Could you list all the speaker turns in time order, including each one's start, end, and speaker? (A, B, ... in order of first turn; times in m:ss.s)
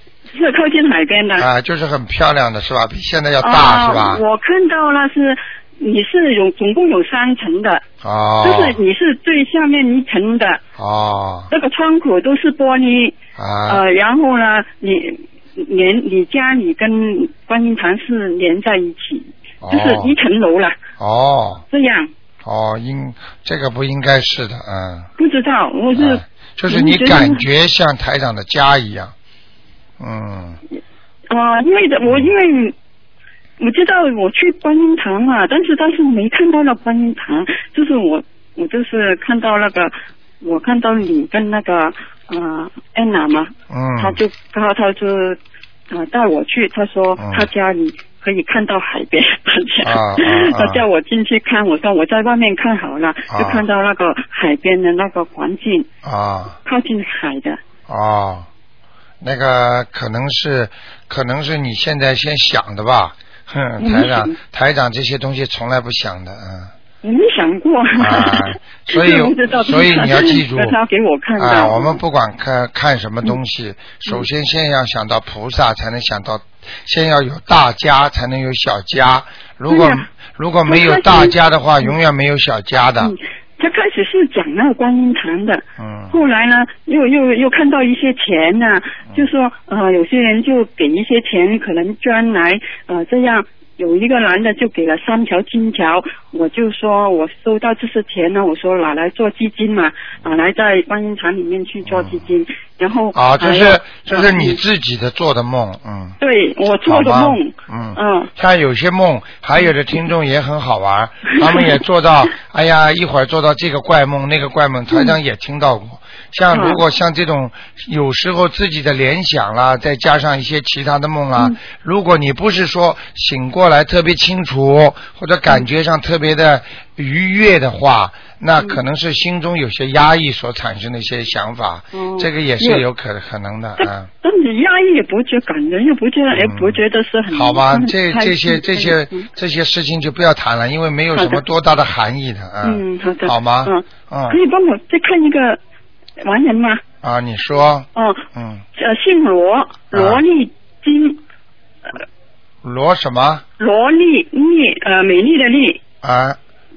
0:00.3-0:01.5 A
0:01.4-0:04.2 B
0:03.4-0:07.8 A
0:08.0-0:08.8 B
0:08.4-0:10.6 A
0:10.8-0:11.5 B
0:11.5-0:13.2 A
0:13.4-0:13.8 B
0:13.7-0:20.8 A
0:19.6-0:20.1 B
0:21.0-0:21.6 B
0:21.7-0:22.1 A
0:22.4-0:25.1 B
0:25.2-0:27.4 A
0:26.0-0:29.1 B
0:30.0-0:30.6 B
0:31.3-0:32.7 A
0:33.6-0:45.4 A
0:43.7-0:44.2 B
0:45.9-0:55.9 A
0:47.2-0:47.5 B
0:49.8-0:50.8 B
0:53.3-0:53.6 B
0:56.0-0:56.6 B
0:56.6-0:57.6 A
0:57.9-0:58.5 B
0:59.2-1:06.7 B
1:03.8-1:04.4 A
1:07.0-1:12.0 A
1:08.0-1:10.8 B
1:11.4-1:23.1 B
1:19.7-1:20.0 A
1:20.7-1:21.9 A
1:23.0-1:44.6 A
1:25.8-1:26.2 B
1:41.9-1:42.2 B
1:43.1-1:46.2 B
1:46.2-1:48.3 A
1:46.8-2:14.1 B
1:51.3-1:51.7 A
1:54.9-1:55.2 A
1:56.5-1:56.8 A
2:11.9-2:12.8 A
2:13.8-2:19.3 A
2:16.3-2:24.4 B
2:21.1-2:21.4 A
2:22.6-2:25.6 A
2:26.2-2:26.8 A
2:27.0-2:28.6 B
2:28.0-2:28.2 A
2:28.8-2:31.2 A
2:29.9-2:30.2 B
2:32.6-2:33.4 B
2:33.6-2:35.8 A
2:36.0-2:36.4 B